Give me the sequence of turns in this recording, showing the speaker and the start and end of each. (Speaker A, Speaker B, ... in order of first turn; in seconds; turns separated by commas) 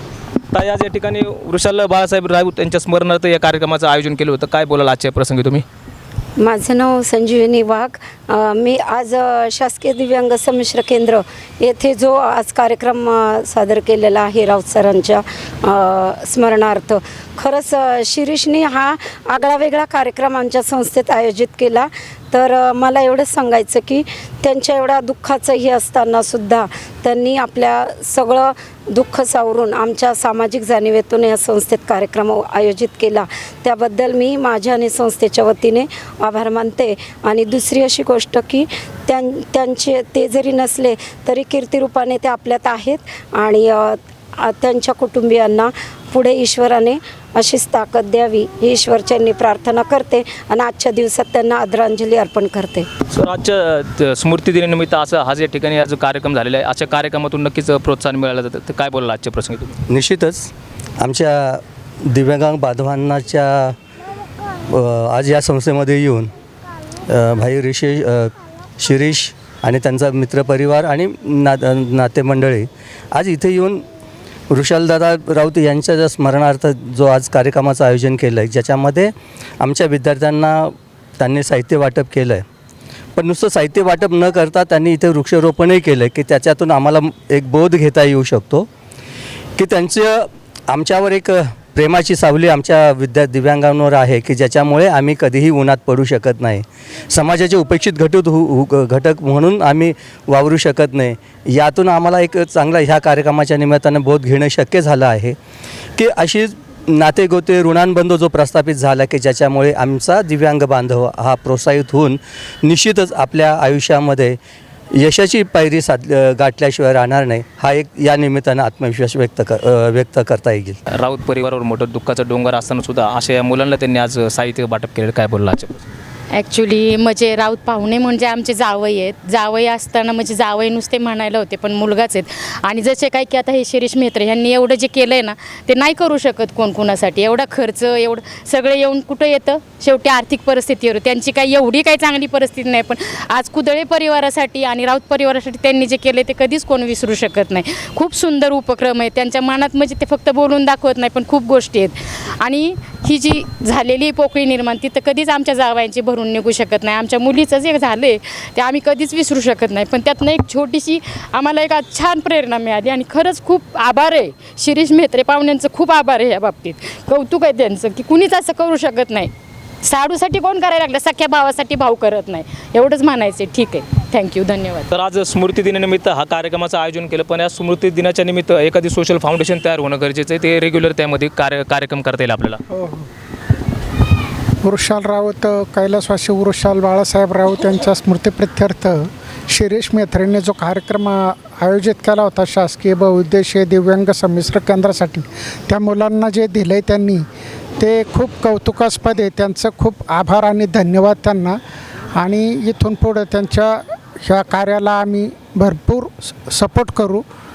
Speaker A: 0.5-5.6, Speaker B: 6.4-52.9, Speaker A: 53.1-59.8, Speaker C: 59.9-63.8, Speaker C: 64.6-66.3, Speaker C: 67.0-73.8, Speaker C: 74.5-82.4, Speaker C: 83.2-88.7, Speaker C: 89.6-105.3, Speaker C: 106.0-114.4, Speaker C: 114.9-120.8, Speaker A: 120.9-125.8, Speaker D: 126.3-169.3, Speaker D: 169.8-174.9, Speaker A: 174.9-182.6, Speaker E: 182.7-183.1, Speaker E: 184.6-197.2, Speaker E: 197.8-201.6, Speaker E: 202.1-207.2